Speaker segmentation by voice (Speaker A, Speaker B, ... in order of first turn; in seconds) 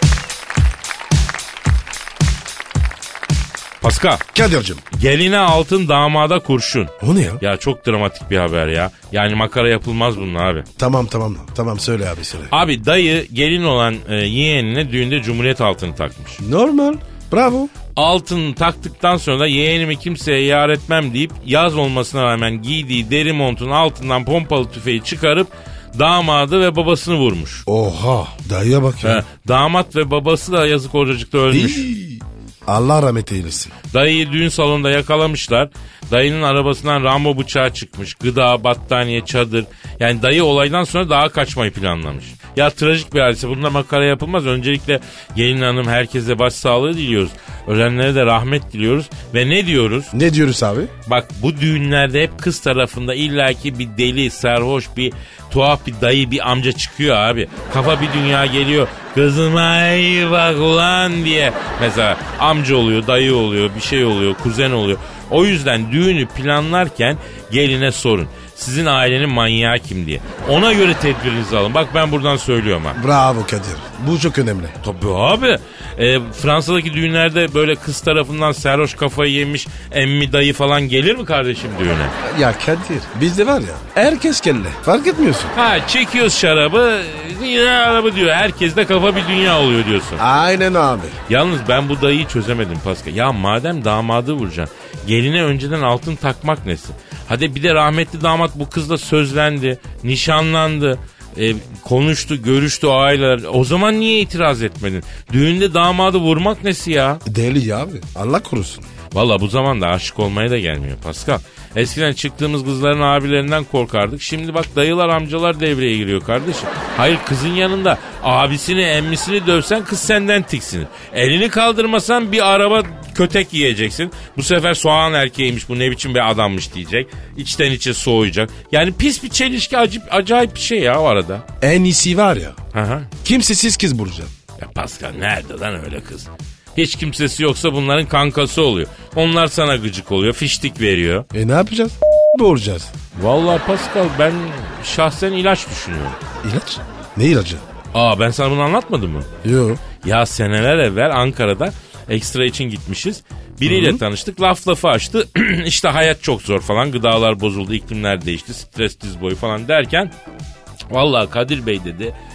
Speaker A: 3.8-4.2, 4.9-10.7, 12.5-16.4, 17.9-27.6, 29.0-31.9, 33.9-50.1, 51.1-73.0, 74.8-82.2, 85.5-90.2, 91.3-107.2, 109.1-131.4, 132.7-133.1, 134.6-141.2, 143.1-146.2, 147.9-149.3, 150.0-160.1, 160.9-162.1
Speaker B: 4.3-4.8, 7.0-7.4, 10.8-12.5, 16.4-17.7, 27.7-29.2, 31.5-33.7, 50.1-50.9, 72.9-74.8, 82.2-85.5, 90.2-91.2, 107.2-108.9, 131.6-132.6, 133.2-134.3, 141.3-142.9, 146.4-147.6, 149.4-149.8, 153.6-154.0